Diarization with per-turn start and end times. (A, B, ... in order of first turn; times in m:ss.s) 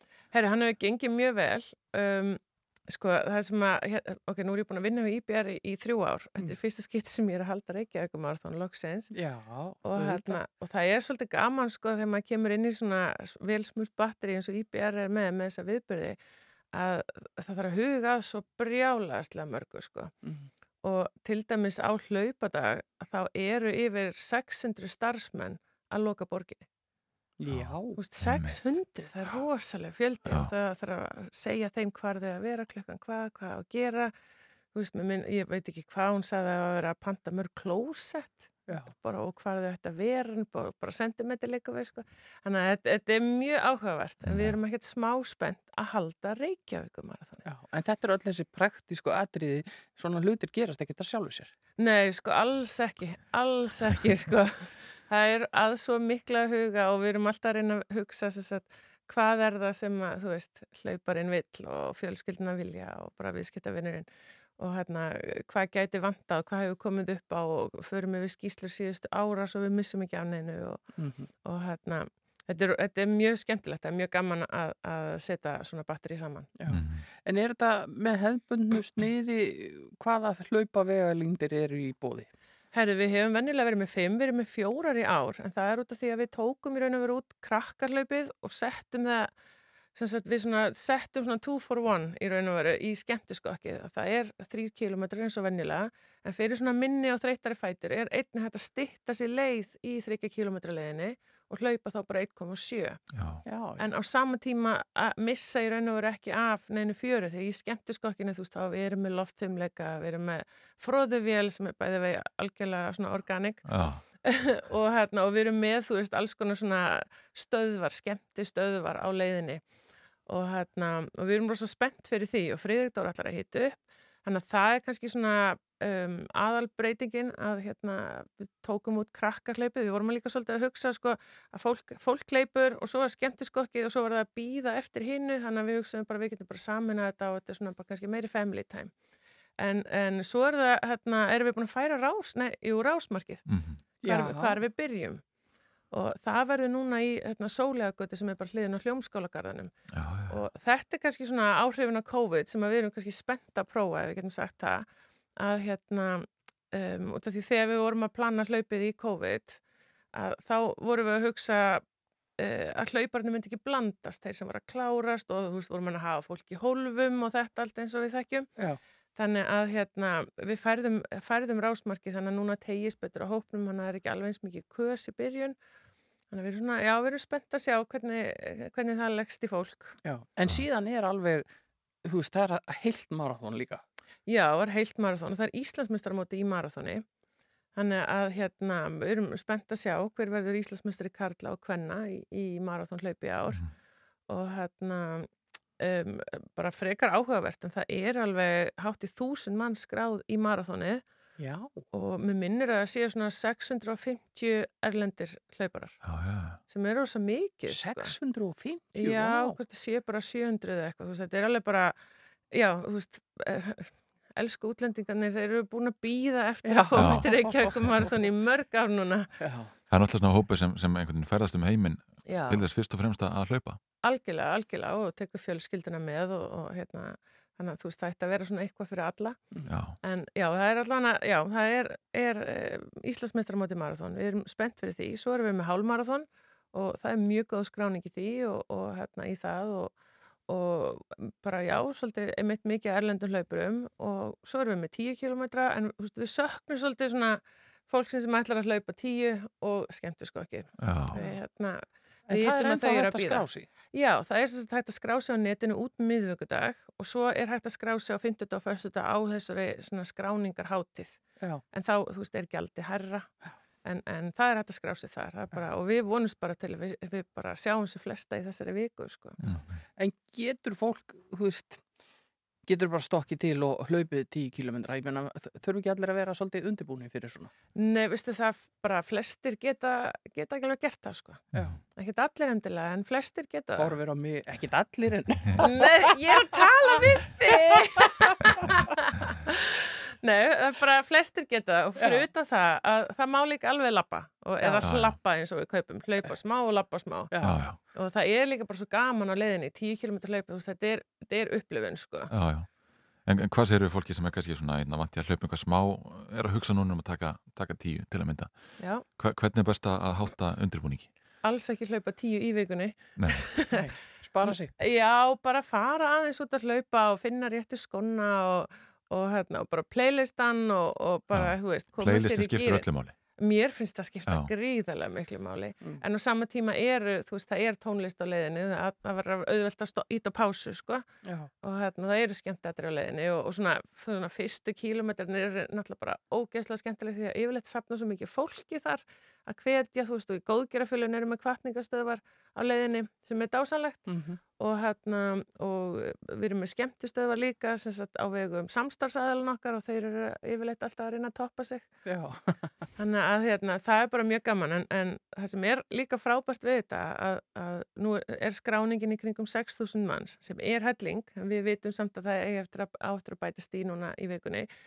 0:00.3-0:09.2 A
0:09.1-0:10.4 B
0:09.8-0:16.2 A
0:16.7-0:20.1 A
0:20.2-0:20.5 B
0:20.8-0:26.6 A
0:27.4-0:28.0 B
0:27.5-0:28.6 C
0:28.0-0:34.1 A
0:30.3-0:30.5 C
0:34.7-0:47.4 A
0:44.2-0:44.6 C
0:47.4-0:51.5 B
0:51.8-1:10.9 A
1:11.0-1:11.3 B
1:11.4-1:16.5 A
1:16.6-1:22.3 B
1:16.7-1:17.0 C
1:22.7-1:29.3 A
1:30.0-1:43.0 A
1:43.1-1:43.4 C
1:43.4-1:43.8 B
1:43.8-1:53.7 A
1:53.7-1:54.0 C
1:54.2-1:59.6 A
2:00.3-2:18.9 A
2:19.6-2:23.5 A
2:23.5-2:23.8 C
2:24.0-2:25.2 A
2:24.0-2:24.6 B
2:25.9-2:29.8 A
2:29.9-2:30.4 C
2:30.3-2:39.6 A
2:40.1-2:41.8 A
2:42.4-2:48.5 A
2:49.2-2:55.6 A
2:56.3-3:00.0 A
3:00.0-3:01.5 B
3:02.0-3:03.8 B
3:04.3-3:07.0 A
3:07.8-3:13.7 A
3:14.3-3:21.0 A
3:21.4-3:21.8 B
3:21.9-3:26.0 A
3:26.0-3:26.6 C
3:26.6-3:28.2 A
3:27.7-3:29.6 B
3:29.0-3:32.0 A
3:32.5-3:39.3 A
3:36.6-3:38.1 B
3:37.0-3:37.3 C
3:39.4-3:39.7 B
3:39.9-3:43.8 C
3:42.3-3:42.6 A
3:44.0-3:49.5 A
3:49.7-3:50.0 C
3:50.0-4:29.4 A
4:10.8-4:11.2 C
4:11.1-4:11.4 B
4:12.3-4:13.7 B
4:29.4-4:29.8 C
4:29.4-4:31.8 B
4:32.7-4:37.5 B
4:37.8-4:44.0 A
4:43.8-4:46.6 B
4:45.6-4:49.5 A
4:50.2-5:02.3 A
4:52.0-4:52.2 B
4:54.6-4:54.9 B
4:54.8-4:55.2 C
4:57.3-4:57.6 B
4:57.4-4:57.8 C
5:02.3-5:02.7 C
5:03.2-5:11.1 C
5:08.8-5:09.0 A
5:11.4-5:13.8 A
5:13.2-5:13.4 C
5:13.7-5:14.7 B
5:14.5-5:31.0 A
5:21.3-5:23.2 C
5:31.2-5:31.5 B
5:31.6-5:52.0 A
5:44.1-5:44.4 B
5:52.1-5:52.7 B
5:53.0-6:04.7 A